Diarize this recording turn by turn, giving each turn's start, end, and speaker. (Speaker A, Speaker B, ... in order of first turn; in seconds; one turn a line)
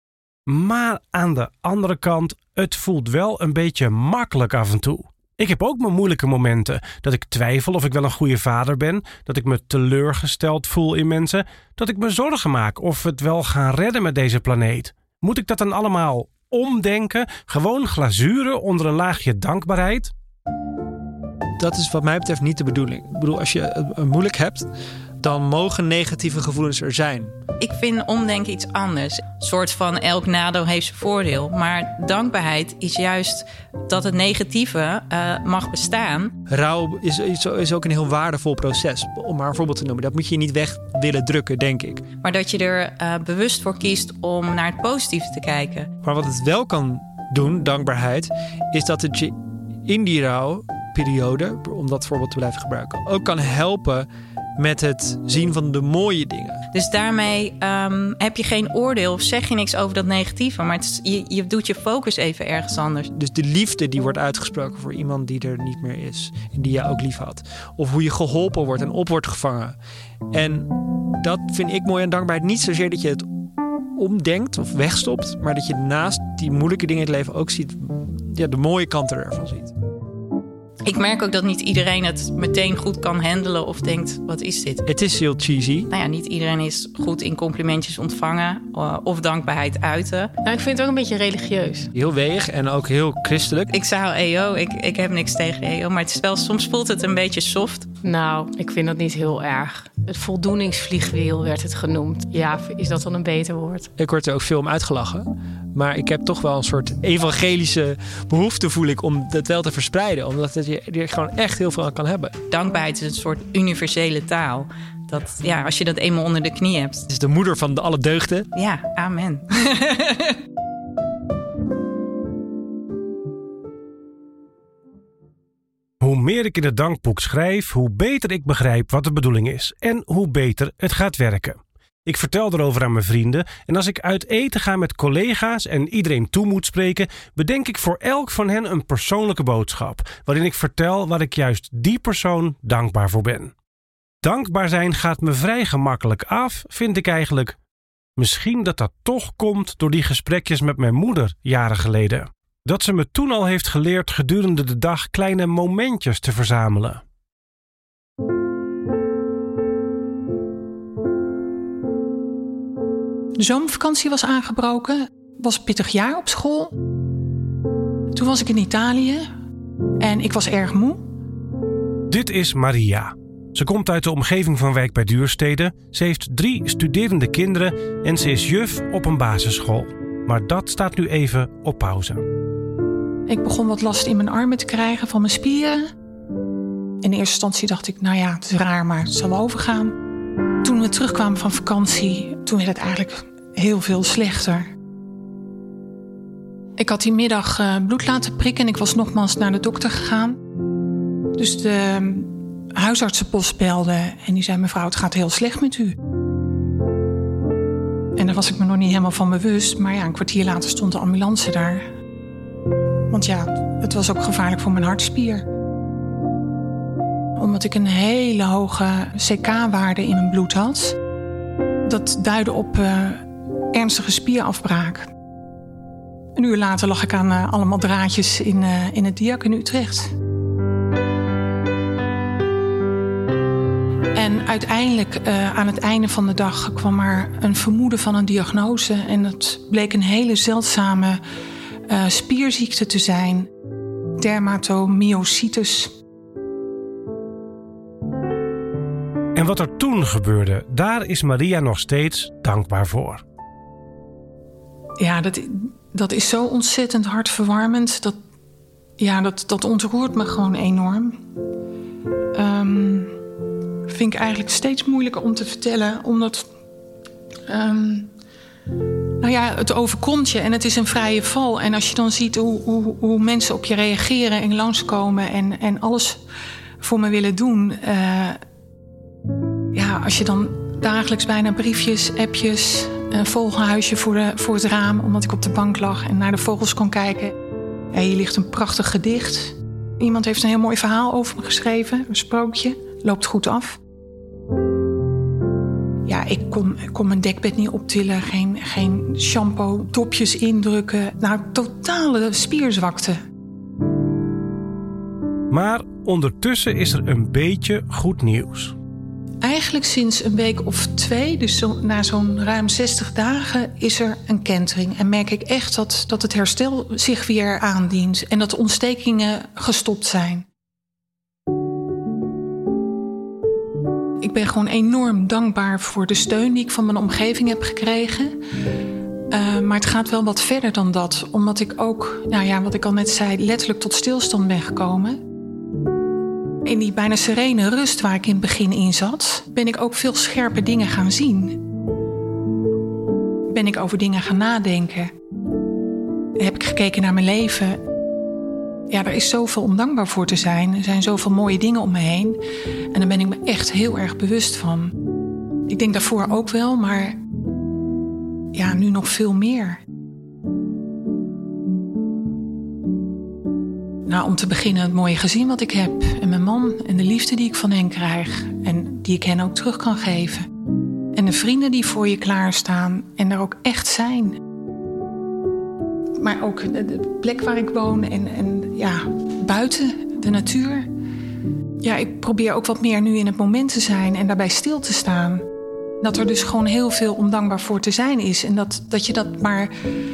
Speaker A: 0.5-20.1
Speaker B: 21.6-24.7
Speaker B: 25.2-27.4
Speaker C: 27.6-36.3
Speaker B: 36.5-42.0
Speaker C: 42.2-45.9
Speaker B: 46.0-56.6
Speaker C: 56.7-63.1
Speaker B: 63.1-69.8
Speaker B: 70.3-73.3
Speaker B: 74.0-79.7
Speaker C: 80.8-84.8
Speaker B: 84.9-85.9
Speaker C: 85.9-90.3
Speaker D: 90.5-91.9
Speaker B: 92.0-93.7
Speaker C: 93.7-97.9
Speaker D: 98.0-103.9
Speaker B: 104.0-112.3
Speaker C: 112.5-117.1
Speaker B: 117.1-118.5
Speaker C: 118.5-120.4
Speaker A: 126.0-143.5
Speaker A: 144.2-147.6
Speaker A: 148.2-157.0
Speaker E: 163.4-166.8
Speaker E: 168.1-169.3
Speaker E: 170.0-171.1
Speaker A: 172.1-182.2
Speaker E: 183.3-185.9
Speaker E: 187.0-190.0
Speaker E: 190.6-194.7
Speaker E: 196.8-200.4
Speaker E: 201.4-206.0
Speaker E: 208.2-211.9
Speaker E: 213.1-215.5
Speaker E: 217.3-221.0
Speaker E: 221.8-225.1
Speaker E: 226.3-230.1
Speaker E: 234.1-241.2
Speaker E: 241.9-243.5
Speaker E: 244.2-246.0
Speaker A: 249.4-253.2
Speaker E: 255.0-258.2
Speaker E: 259.0-261.2
Speaker E: 262.3-263.2
Speaker E: 263.9-266.5
Speaker E: 267.5-268.1
Speaker E: 269.2-276.2
Speaker E: 276.8-278.4
Speaker E: 279.7-287.4
Speaker E: 287.9-293.8
Speaker E: 296.1-303.2
Speaker A: 305.5-308.7
Speaker E: 309.4-320.5
Speaker E: 324.2-328.4
Speaker E: 329.3-335.2
Speaker E: 336.6-341.6
Speaker E: 343.5-345.1
Speaker E: 346.4-347.8
Speaker E: 348.9-352.4
Speaker E: 352.9-355.0
Speaker E: 355.7-357.2
Speaker E: 358.5-359.8
Speaker E: 364.1-370.5
Speaker E: 371.1-374.4
Speaker E: 376.2-380.9
Speaker E: 381.8-385.4
Speaker E: 386.0-389.7